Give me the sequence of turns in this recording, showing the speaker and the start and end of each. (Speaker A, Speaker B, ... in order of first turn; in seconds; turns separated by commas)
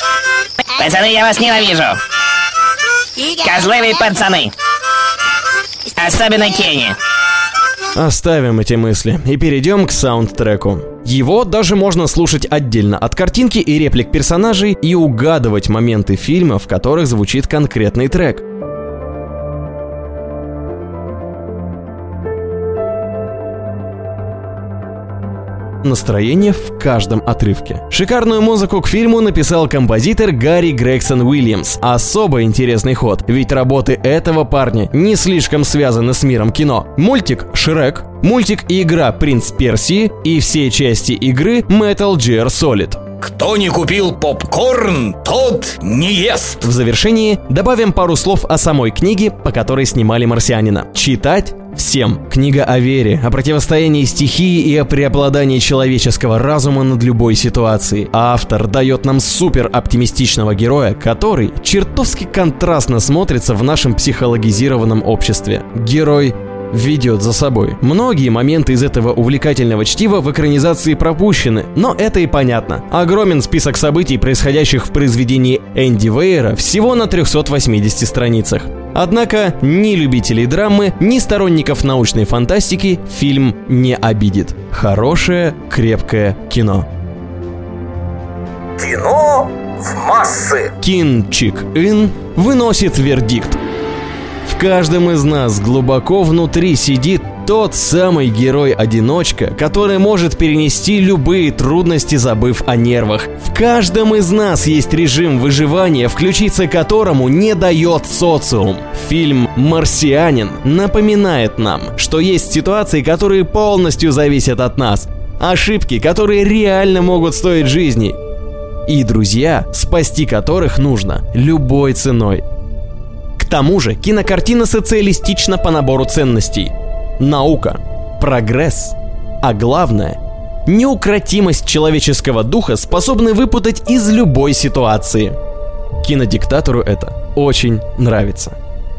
Speaker A: 0.8-2.0, Speaker A: 3.4-4.5, Speaker A: 6.0-7.0, Speaker B: 7.9-18.4, Speaker B: 25.8-43.0, Speaker C: 43.2-46.6, Speaker B: 46.6-86.9, Speaker C: 88.8-90.7, Speaker B: 90.8-93.6, Speaker B: 94.4-118.2, Speaker B: 118.8-122.4, Speaker B: 123.4-135.4, Speaker B: 136.0-138.6